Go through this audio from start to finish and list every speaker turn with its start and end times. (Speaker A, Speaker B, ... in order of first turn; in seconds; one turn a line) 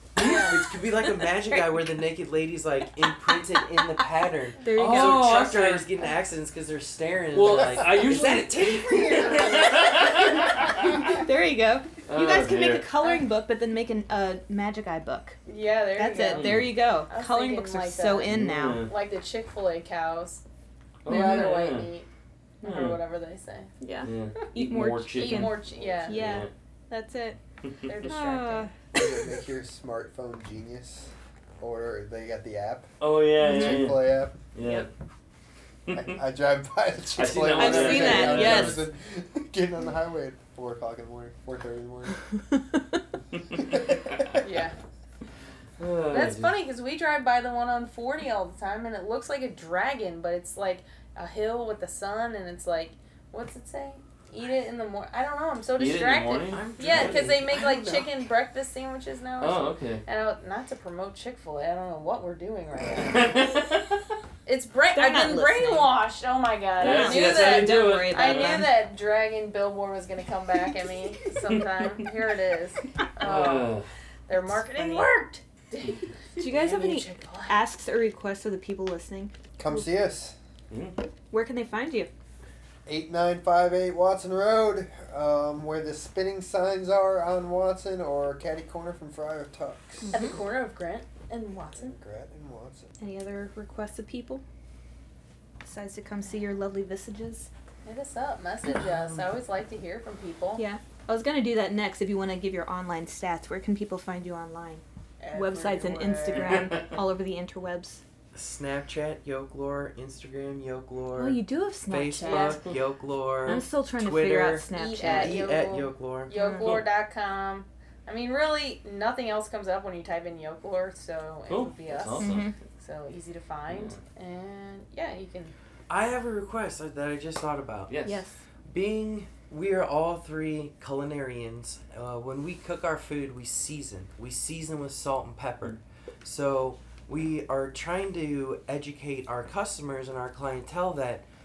Speaker A: 0.2-0.6
Speaker B: 0.2-9.9
Speaker C: 1.2-1.8
Speaker C: 4.6-5.4
Speaker D: 4.7-5.9
Speaker D: 7.3-11.0
Speaker C: 8.0-15.4
Speaker D: 12.1-12.9
Speaker A: 15.5-20.4
Speaker C: 15.9-18.9
Speaker D: 16.3-16.8
Speaker D: 18.3-18.9
Speaker D: 21.0-21.9
Speaker A: 21.1-22.1
Speaker C: 21.1-21.5
Speaker D: 22.6-23.0
Speaker A: 22.6-24.1
Speaker C: 23.8-27.4
Speaker D: 24.0-26.5
Speaker A: 25.1-26.4
Speaker A: 27.8-28.7
Speaker C: 28.0-28.7
Speaker E: 28.9-34.4
Speaker D: 33.0-34.9
Speaker C: 33.4-33.9
Speaker D: 35.9-36.1
Speaker E: 35.9-42.2
Speaker D: 37.1-38.9
Speaker C: 37.4-38.8
Speaker A: 44.4-44.7
Speaker D: 45.8-46.5
Speaker A: 46.1-63.6
Speaker D: 55.8-57.3
Speaker B: 56.5-58.1
Speaker D: 59.4-60.0
Speaker D: 63.1-63.8
Speaker A: 64.5-73.8
Speaker C: 64.9-66.0
Speaker C: 66.8-68.7
Speaker D: 66.8-68.6
Speaker D: 73.2-73.9
Speaker A: 74.3-77.6
Speaker C: 74.3-75.1
Speaker C: 76.4-79.8
Speaker E: 79.6-80.3
Speaker D: 80.7-81.0
Speaker C: 81.3-82.1
Speaker E: 82.8-90.1
Speaker C: 90.0-90.4
Speaker A: 90.1-92.0
Speaker E: 91.8-92.9
Speaker C: 93.0-94.4
Speaker C: 95.6-97.5
Speaker A: 97.8-100.6
Speaker C: 100.5-104.8
Speaker A: 105.2-106.8
Speaker C: 105.3-108.0
Speaker D: 106.4-106.8
Speaker B: 108.3-116.3
Speaker C: 111.1-112.6
Speaker A: 112.2-112.6
Speaker C: 113.4-115.6
Speaker A: 114.7-125.5
Speaker C: 116.3-116.8
Speaker D: 121.5-122.5
Speaker C: 122.1-122.5
Speaker D: 123.7-124.0
Speaker B: 125.9-128.0
Speaker D: 127.9-128.2
Speaker C: 128.0-128.3
Speaker B: 128.7-141.2